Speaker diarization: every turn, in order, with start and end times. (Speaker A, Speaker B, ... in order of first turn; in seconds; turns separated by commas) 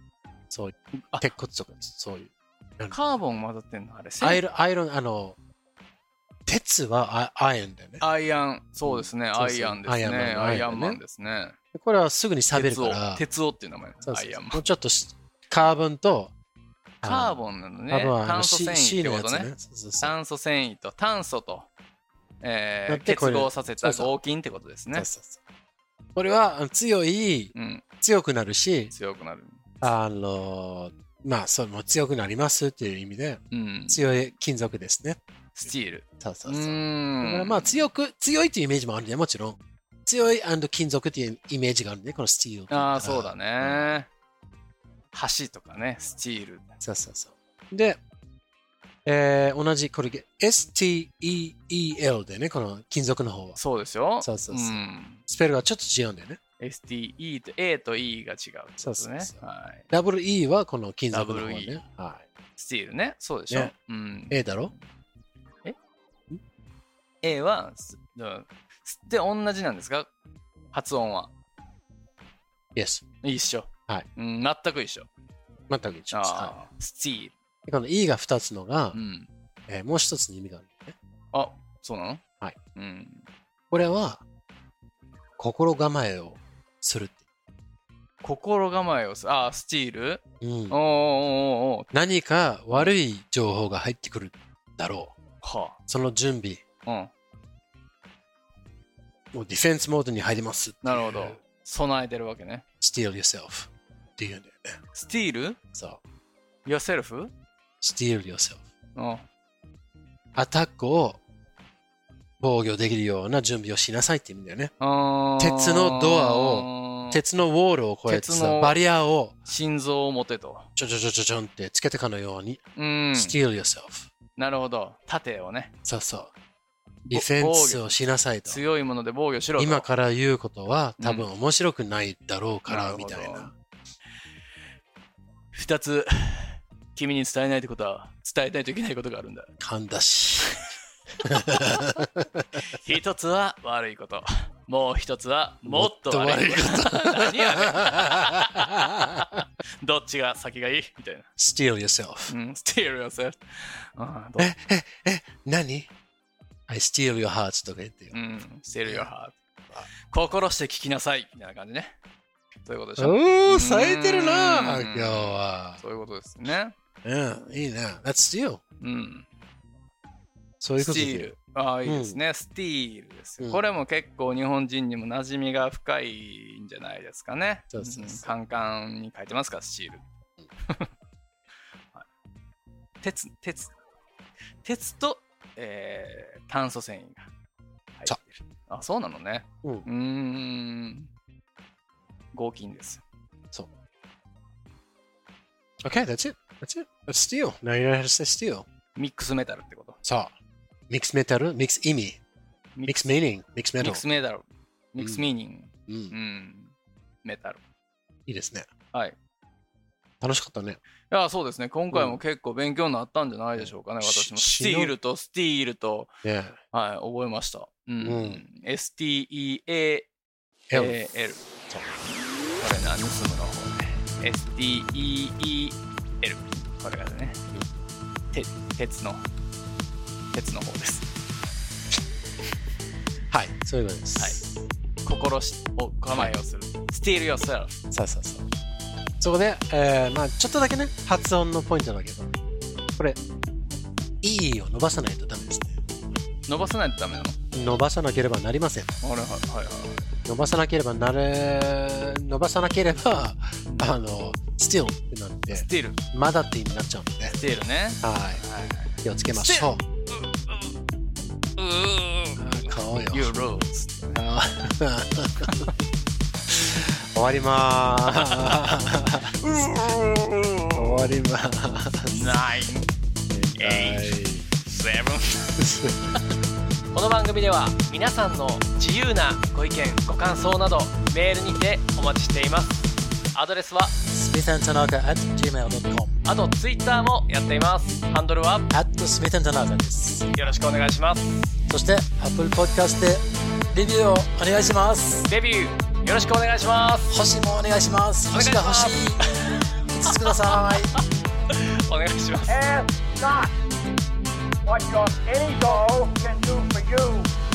Speaker A: 0.5-3.0, Speaker B: 0.9-1.3, Speaker B: 2.9-4.4, Speaker A: 4.2-5.4, Speaker A: 6.5-8.0, Speaker B: 8.0-11.6, Speaker A: 8.8-11.0, Speaker A: 11.7-13.2, Speaker B: 12.5-14.6, Speaker A: 14.0-16.3, Speaker A: 17.0-17.4, Speaker B: 17.0-21.7, Speaker A: 17.9-20.1, Speaker B: 22.4-25.1, Speaker A: 22.9-24.1, Speaker A: 24.9-25.4, Speaker A: 26.1-28.9, Speaker B: 27.5-27.8, Speaker B: 28.9-29.6, Speaker A: 29.8-35.2, Speaker B: 33.5-34.0, Speaker B: 35.5-37.7, Speaker A: 36.2-44.0, Speaker B: 42.7-44.1, Speaker B: 45.1-46.7, Speaker A: 46.8-48.0, Speaker A: 49.0-53.6, Speaker B: 53.5-55.2, Speaker A: 54.2-56.4, Speaker B: 56.6-59.9, Speaker A: 58.8-62.2, Speaker B: 61.1-61.8, Speaker B: 62.6-64.8, Speaker A: 64.3-64.7, Speaker B: 67.2-70.1, Speaker B: 70.7-71.3, Speaker A: 72.7-73.0, Speaker B: 73.2-75.1, Speaker A: 75.7-76.6, Speaker B: 76.1-77.3, Speaker A: 77.7-79.0, Speaker B: 78.9-79.3, Speaker A: 79.7-80.9, Speaker B: 81.3-82.2, Speaker B: 82.8-83.2, Speaker A: 83.7-84.2, Speaker A: 85.4-87.2, Speaker B: 88.2-91.9, Speaker A: 90.4-90.8, Speaker A: 91.9-95.2, Speaker B: 95.4-95.8, Speaker A: 95.9-96.6, Speaker B: 96.8-97.1, Speaker A: 99.3-101.4, Speaker B: 100.8-102.6, Speaker A: 102.8-104.8, Speaker B: 104.9-105.6, Speaker A: 105.7-106.0, Speaker B: 106.6-107.3, Speaker A: 107.8-108.6, Speaker B: 109.0-109.2, Speaker A: 110.3-111.2, Speaker A: 112.4-114.7, Speaker B: 114.8-117.2, Speaker A: 115.4-119.4, Speaker B: 118.1-118.8, Speaker B: 119.5-120.7, Speaker A: 120.8-122.6, Speaker B: 122.8-123.4, Speaker A: 123.1-124.1, Speaker B: 124.4-125.7, Speaker A: 125.8-126.3, Speaker B: 127.1-129.9, Speaker A: 127.1-128.6, Speaker A: 129.6-133.5, Speaker B: 131.0-131.3, Speaker B: 132.7-133.5, Speaker B: 135.5-139.5, Speaker A: 139.6-140.6, Speaker A: 141.2-142.7, Speaker B: 142.6-151.3, Speaker A: 145.7-149.4, Speaker A: 151.4-152.3, Speaker B: 152.3-154.5, Speaker A: 154.4-155.9, Speaker A: 156.7-158.2, Speaker B: 158.1-159.4, Speaker A: 158.8-159.1, Speaker B: 160.1-161.9, Speaker B: 162.6-166.7, Speaker A: 163.0-165.8, Speaker A: 167.0-168.6, Speaker B: 168.8-169.3, Speaker A: 170.6-171.3, Speaker B: 170.8-180.0, Speaker A: 171.8-172.2, Speaker A: 177.7-178.3, Speaker B: 180.7-180.9, Speaker B: 183.0-183.7, Speaker B: 184.6-187.3, Speaker B: 188.0-191.1, Speaker B: 192.3-193.0, Speaker A: 195.8-198.6, Speaker B: 198.9-200.0, Speaker A: 200.0-200.3, Speaker A: 200.9-202.2, Speaker B: 202.8-203.0, Speaker A: 202.8-204.0, Speaker B: 203.8-207.6, Speaker A: 205.0-205.2, Speaker A: 205.9-206.2, Speaker A: 208.3-208.7, Speaker A: 210.2-210.8, Speaker B: 211.1-216.1, Speaker A: 211.9-212.2, Speaker A: 213.6-214.9, Speaker A: 216.2-216.6, Speaker B: 216.7-220.1, Speaker A: 218.0-218.4, Speaker A: 220.7-221.0, Speaker B: 220.7-221.4, Speaker B: 222.6-227.4, Speaker B: 228.3-229.3, Speaker B: 230.3-231.1, Speaker A: 233.3-234.5, Speaker B: 234.2-234.4, Speaker B: 235.0-237.8, Speaker A: 237.9-238.5, Speaker A: 239.2-242.3, Speaker A: 244.2-245.8, Speaker B: 246.5-247.4, Speaker A: 247.5-248.9, Speaker B: 249.0-250.1, Speaker A: 250.2-257.4, Speaker B: 253.7-253.9, Speaker B: 255.5-256.0, Speaker B: 257.3-260.8, Speaker A: 258.0-258.4, Speaker A: 259.0-259.8, Speaker B: 261.6-264.2, Speaker A: 262.4-263.3, Speaker A: 264.1-265.6, Speaker B: 265.4-265.7, Speaker A: 266.5-269.4, Speaker B: 268.2-268.8, Speaker B: 269.3-271.1, Speaker A: 270.7-272.3, Speaker B: 272.1-272.9, Speaker A: 273.3-274.5, Speaker B: 273.5-275.6, Speaker A: 275.6-276.2, Speaker B: 276.9-283.9, Speaker A: 284.1-286.1, Speaker B: 286.2-288.7, Speaker A: 288.7-290.3, Speaker B: 290.3-291.5, Speaker A: 291.7-295.3, Speaker B: 295.3-297.1, Speaker A: 297.1-299.2, Speaker B: 298.3-302.6, Speaker A: 299.9-301.0, Speaker C: 302.5-303.5, Speaker C: 304.6-307.3